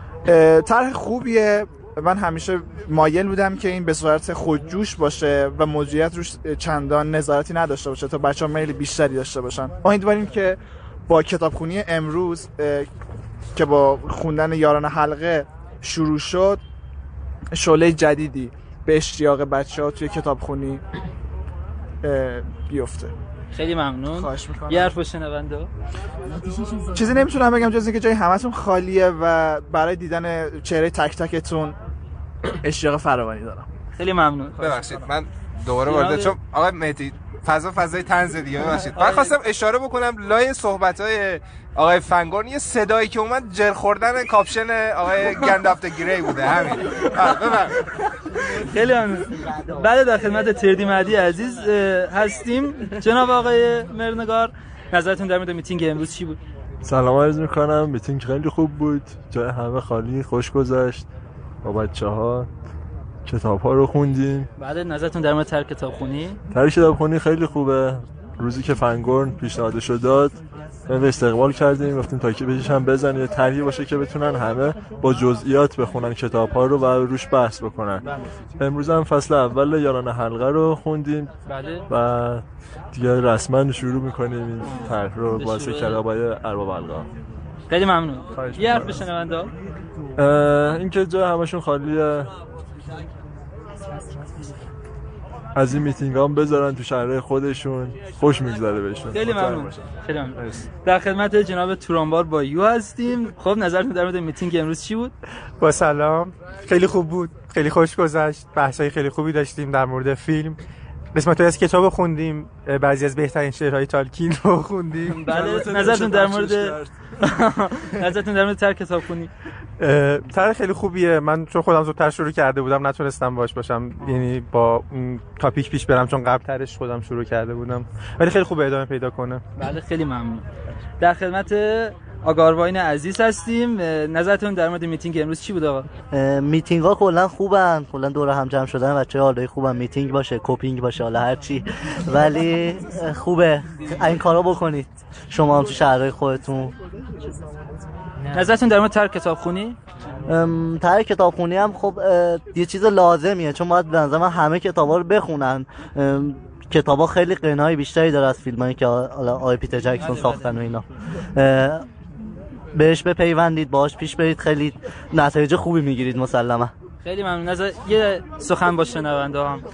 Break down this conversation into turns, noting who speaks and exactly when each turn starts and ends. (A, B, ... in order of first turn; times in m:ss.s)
0:00.3-0:12.9 A
0:13.6-0:16.6 A
0:17.5-0:20.8 A
0:22.0-0:23.1 A
0:23.5-0:25.7 B
0:24.1-0:25.0 A
0:26.9-0:31.8 A
0:32.6-0:33.7 A
0:34.0-0:35.0 B
0:34.6-0:47.8 C
0:35.8-0:36.4 B
0:38.9-0:39.3 B
0:48.6-0:56.4 B
0:56.8-1:01.1 D
1:01.6-1:02.5 D
1:03.3-1:04.5 D
1:04.6-1:06.4 B
1:06.5-1:10.4 D
1:10.9-1:18.0 D
1:18.6-1:21.3 D
1:21.5-1:21.8 B
1:21.9-1:27.1 D
1:24.6-1:26.0 B
1:27.7-1:29.5 B
1:28.3-1:29.1 D
1:30.2-1:32.3 D
1:35.6-1:40.6 D
1:39.1-1:45.1 B
1:45.6-1:50.6 E
1:51.1-1:55.2 E
1:55.0-1:57.0 D
1:55.2-1:59.3 B
1:59.8-2:09.4 E
2:09.6-2:10.5 B
2:11.0-2:15.9 B
2:16.1-2:26.7 F
2:28.3-2:29.8 B
2:30.3-2:41.8 F
2:40.0-2:40.6 B
2:42.8-2:46.7 F
2:47.0-2:49.6 B